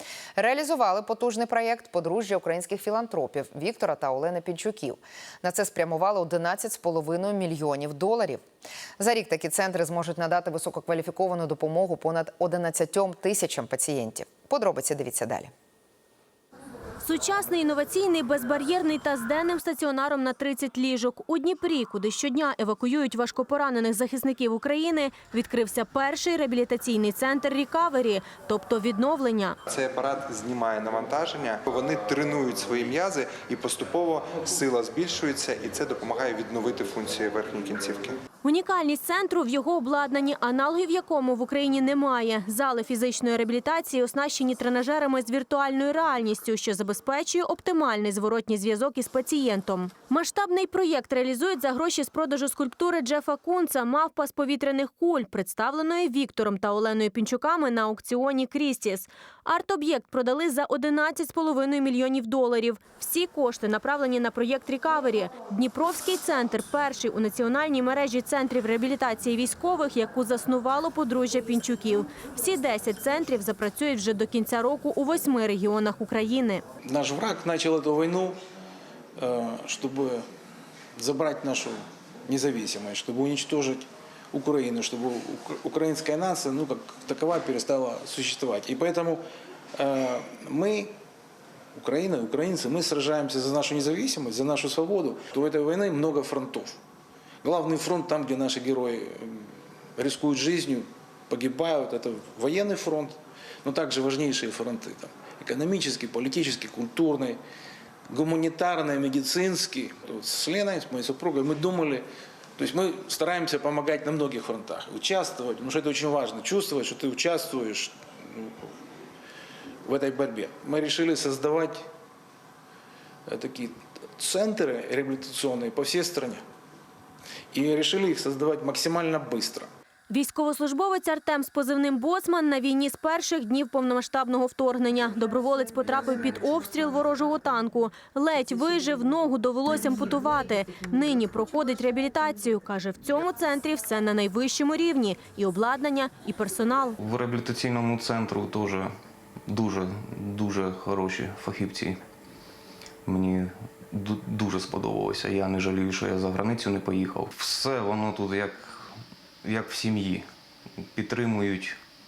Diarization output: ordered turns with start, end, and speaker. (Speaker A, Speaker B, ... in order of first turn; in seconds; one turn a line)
Speaker A: 0.4-8.4
Speaker A: 9.0-15.5
Speaker B: 17.0-29.6
Speaker C: 29.7-38.2
Speaker B: 38.4-76.6
Speaker D: 76.8-78.4
Speaker D: 79.2-80.2
Speaker D: 81.0-89.2
Speaker D: 89.8-90.9
Speaker D: 91.8-96.8
Speaker D: 97.4-107.4
Speaker D: 108.1-112.0
Speaker D: 112.6-118.7
Speaker D: 119.8-121.8
Speaker D: 123.3-126.4
Speaker D: 127.5-129.7
Speaker B: 130.1-147.0
Speaker E: 147.0-148.9
Speaker E: 149.5-152.0
Speaker E: 153.1-158.9
Speaker E: 159.4-160.3
Speaker E: 160.8-161.8